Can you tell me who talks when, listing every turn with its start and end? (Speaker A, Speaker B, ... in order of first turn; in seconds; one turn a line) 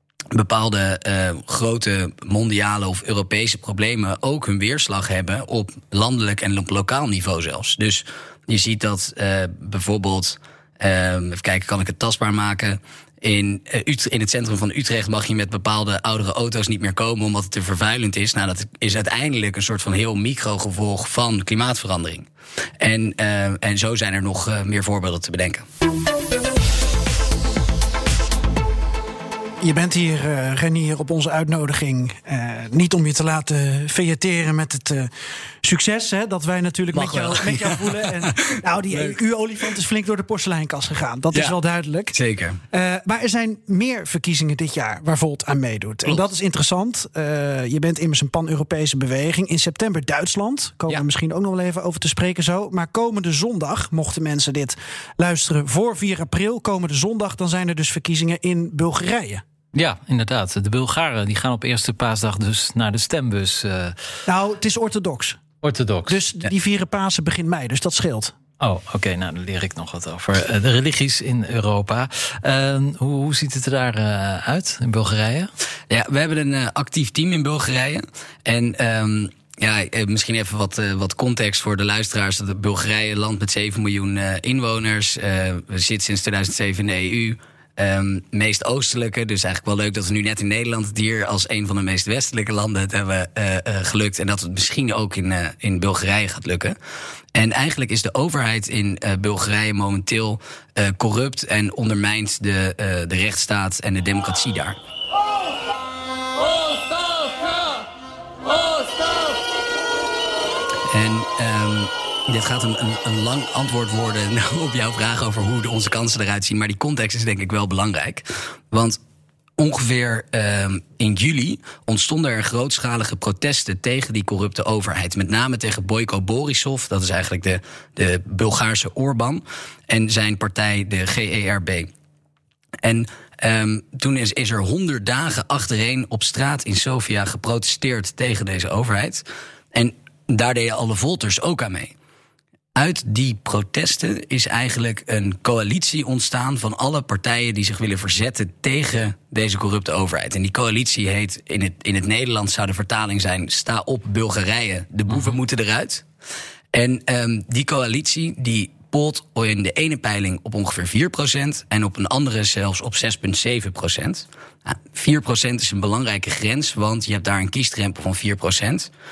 Speaker A: 0.3-22.3
Speaker A: 22.8-25.6
Speaker B: 29.6-35.1
Speaker B: 35.6-42.1
Speaker A: 36.9-39.2
Speaker A: 42.1-42.6
Speaker B: 42.7-59.4
Speaker C: 59.7-64.0
Speaker B: 64.3-65.4
Speaker C: 65.6-66.2
Speaker B: 66.1-68.3
Speaker C: 68.6-75.5
Speaker A: 75.9-96.8
Speaker A: 97.3-104.8
Speaker A: 110.9-119.0
Speaker A: 119.6-131.9
Speaker A: 132.8-141.9
Speaker A: 142.7-156.0
Speaker A: 156.7-168.9